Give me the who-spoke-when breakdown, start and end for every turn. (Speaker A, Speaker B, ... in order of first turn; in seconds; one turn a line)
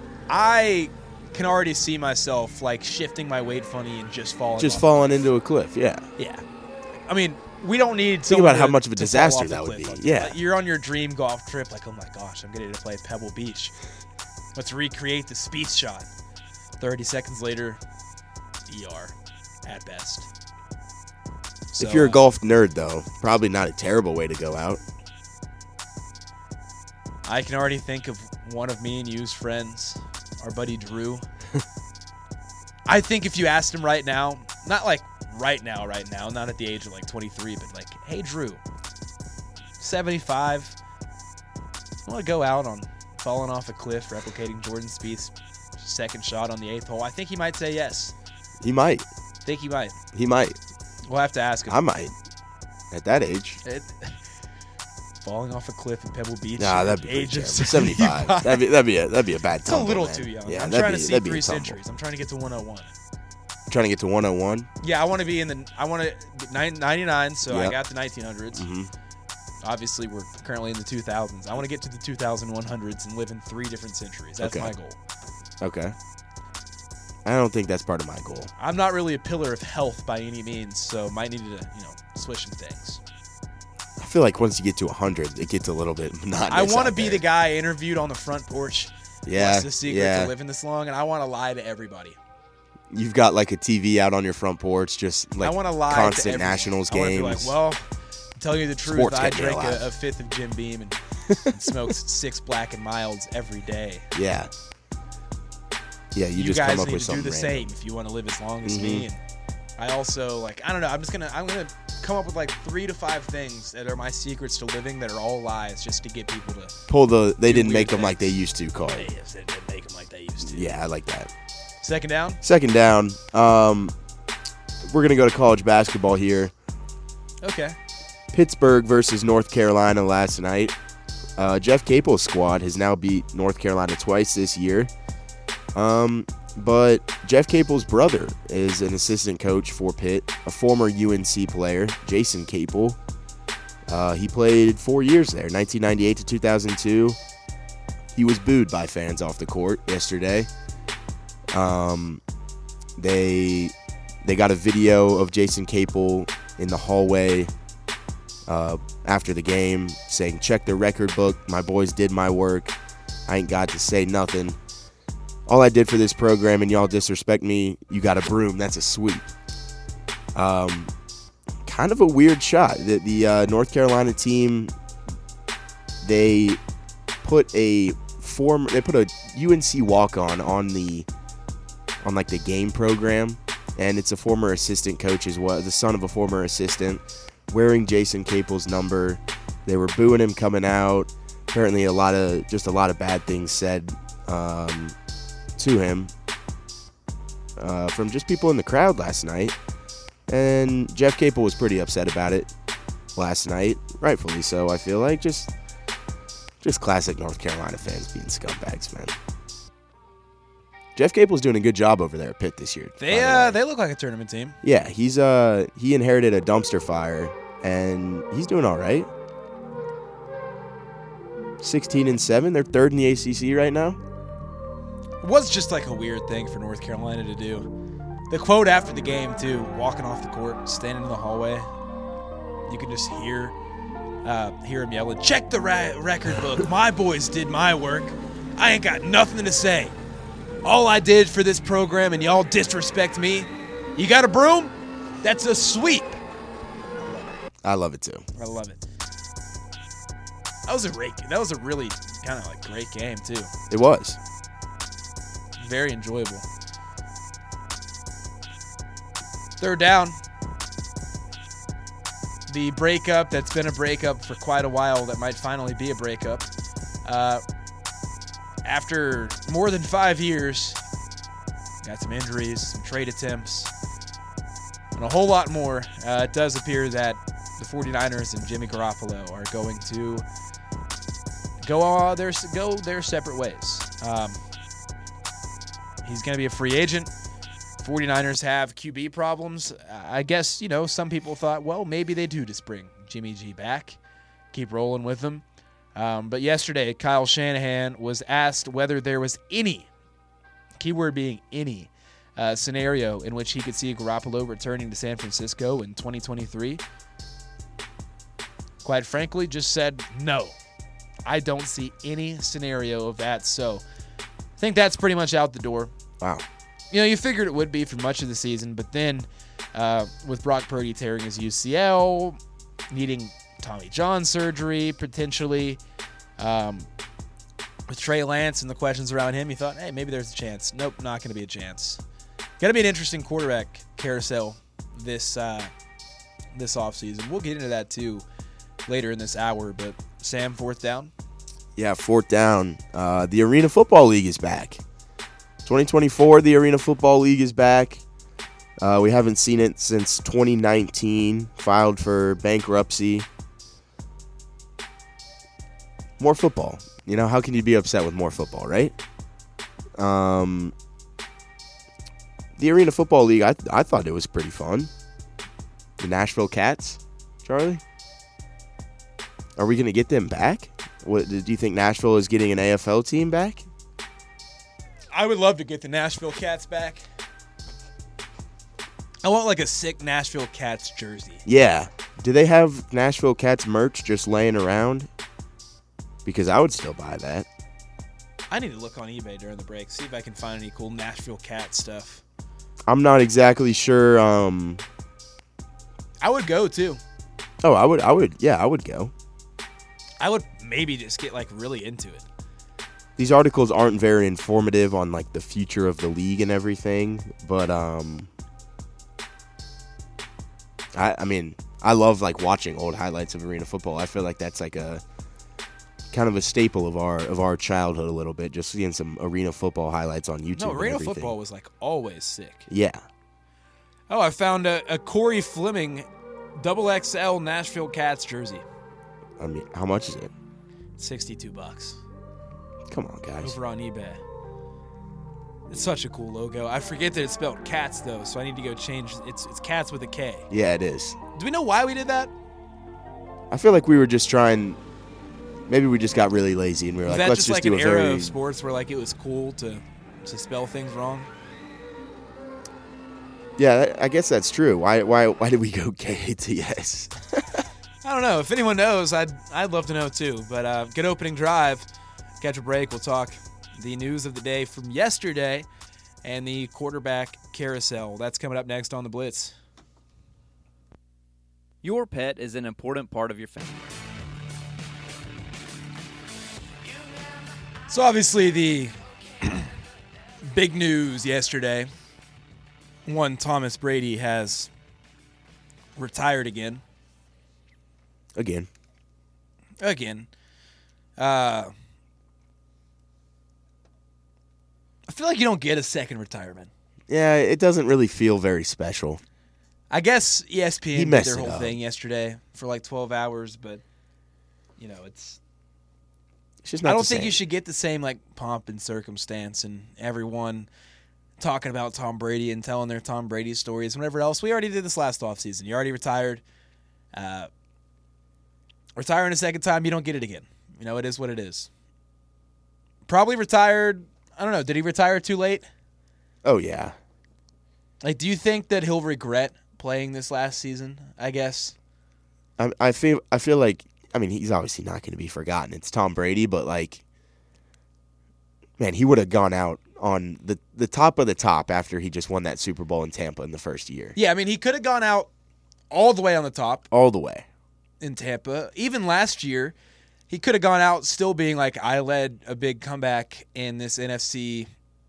Speaker A: 0.3-5.1
Speaker B: 4.6-6.1
Speaker A: 6.2-6.4
Speaker A: 7.1-13.8
Speaker B: 8.3-10.4
Speaker A: 14.6-16.1
Speaker A: 16.8-17.8
Speaker A: 18.7-20.3
Speaker A: 21.7-22.2
Speaker B: 21.8-24.8
Speaker A: 27.2-31.3
Speaker A: 32.9-38.6
Speaker A: 39.8-40.8
Speaker A: 42.1-48.1
Speaker B: 48.6-49.1
Speaker A: 49.5-50.0
Speaker B: 50.1-50.6
Speaker A: 51.1-51.8
Speaker B: 51.7-52.1
Speaker B: 52.9-53.6
Speaker A: 53.6-54.2
Speaker A: 55.2-58.6
Speaker B: 56.6-61.8
Speaker A: 59.6-62.9
Speaker B: 63.7-64.7
Speaker A: 64.8-68.7
Speaker B: 67.5-67.8
Speaker B: 68.5-68.9
Speaker A: 69.6-75.0
Speaker B: 74.4-74.7
Speaker B: 75.6-76.0
Speaker B: 77.2-78.5
Speaker A: 78.6-83.0
Speaker B: 84.0-87.2
Speaker A: 86.5-92.2
Speaker B: 89.3-90.3
Speaker B: 92.9-97.6
Speaker A: 95.4-97.8
Speaker A: 98.4-104.1
Speaker B: 98.8-99.9
Speaker B: 104.1-104.5
Speaker B: 106.1-107.7
Speaker A: 106.3-109.2
Speaker B: 108.6-109.1
Speaker A: 109.8-116.8
Speaker B: 116.9-119.1
Speaker A: 117.5-118.3
Speaker A: 118.9-120.8
Speaker B: 120.4-121.3
Speaker A: 121.8-122.4
Speaker B: 122.4-124.0
Speaker B: 124.8-126.5
Speaker A: 127.4-127.8
Speaker B: 128.3-130.8
Speaker B: 131.4-134.9
Speaker B: 135.8-143.0
Speaker B: 143.9-147.2
Speaker B: 148.2-150.5
Speaker B: 151.5-152.2
Speaker B: 153.0-153.7
Speaker B: 154.2-157.5
Speaker B: 158.5-164.6
Speaker B: 165.5-169.3
Speaker B: 170.3-170.9
Speaker B: 171.7-174.7
Speaker B: 176.0-176.6
Speaker B: 177.2-181.1
Speaker B: 182.0-194.9
Speaker B: 195.6-196.1
Speaker B: 197.6-199.6
Speaker B: 200.3-202.5
Speaker B: 203.2-205.5
Speaker B: 206.6-209.2
Speaker B: 211.0-213.6
Speaker A: 213.0-214.6
Speaker B: 214.6-219.1
Speaker B: 221.6-224.0
Speaker A: 225.2-227.7
Speaker A: 228.3-231.7
Speaker A: 232.7-233.6
Speaker A: 234.2-240.0
Speaker A: 240.6-246.2
Speaker A: 247.0-247.3
Speaker B: 247.6-248.2
Speaker A: 248.3-248.8
Speaker A: 250.7-253.5
Speaker B: 253.7-254.2
Speaker A: 255.6-256.4
Speaker A: 259.6-260.2
Speaker A: 262.5-266.5
Speaker A: 267.1-267.4
Speaker A: 268.6-270.8
Speaker A: 271.8-273.7
Speaker A: 274.9-280.2
Speaker A: 281.6-284.4
Speaker A: 286.0-287.1
Speaker A: 287.8-294.0
Speaker A: 294.5-295.4
Speaker A: 295.9-299.9
Speaker A: 300.8-306.8
Speaker A: 308.8-310.6
Speaker A: 311.3-313.8
Speaker A: 314.6-315.9
Speaker A: 316.9-322.4
Speaker A: 322.9-325.8
Speaker A: 326.4-326.9
Speaker A: 327.9-332.0
Speaker A: 332.6-335.7
Speaker A: 336.5-338.2
Speaker A: 338.9-341.1
Speaker B: 341.8-344.8
Speaker B: 345.6-348.0
Speaker B: 348.8-353.3
Speaker B: 356.2-358.9
Speaker B: 360.0-360.8
Speaker B: 362.6-364.9
Speaker B: 366.0-367.8
Speaker B: 369.6-373.7
Speaker A: 375.1-377.0
Speaker A: 379.2-381.4
Speaker B: 381.5-385.1
Speaker B: 386.2-387.5
Speaker A: 388.5-392.2
Speaker B: 392.9-394.8
Speaker A: 396.2-397.0
Speaker B: 397.6-399.1
Speaker A: 400.2-402.3
Speaker B: 403.2-408.3
Speaker B: 410.9-415.0
Speaker B: 416.1-421.4
Speaker A: 420.5-422.7
Speaker B: 422.7-423.0
Speaker A: 424.1-428.6
Speaker B: 429.4-430.3
Speaker A: 431.0-432.0
Speaker B: 432.9-433.6
Speaker A: 433.4-434.2
Speaker A: 435.7-440.5
Speaker B: 440.5-441.2
Speaker A: 441.4-442.3
Speaker B: 443.5-444.8
Speaker B: 445.7-448.4
Speaker A: 447.1-451.3
Speaker B: 453.6-457.7
Speaker A: 458.0-461.9
Speaker A: 462.4-465.7
Speaker A: 466.2-469.6
Speaker C: 471.8-473.9
Speaker A: 477.9-479.7
Speaker A: 480.4-481.9
Speaker A: 483.1-484.7
Speaker A: 486.0-486.8
Speaker B: 488.4-488.7
Speaker A: 489.8-490.3
Speaker A: 491.2-491.7
Speaker A: 495.1-496.7
Speaker B: 497.1-499.2
Speaker A: 499.9-503.8
Speaker B: 500.9-501.8
Speaker A: 504.8-505.4
Speaker B: 506.6-507.4
Speaker A: 506.8-510.7
Speaker A: 511.4-516.4
Speaker A: 517.1-517.5
Speaker A: 519.0-521.7
Speaker A: 523.1-525.7
Speaker B: 526.4-527.0
Speaker A: 528.0-531.8
Speaker B: 532.6-537.0
Speaker B: 538.8-544.2
Speaker A: 544.2-545.3
Speaker A: 545.9-546.9
Speaker B: 546.9-547.5
Speaker A: 548.0-549.7
Speaker A: 550.3-554.7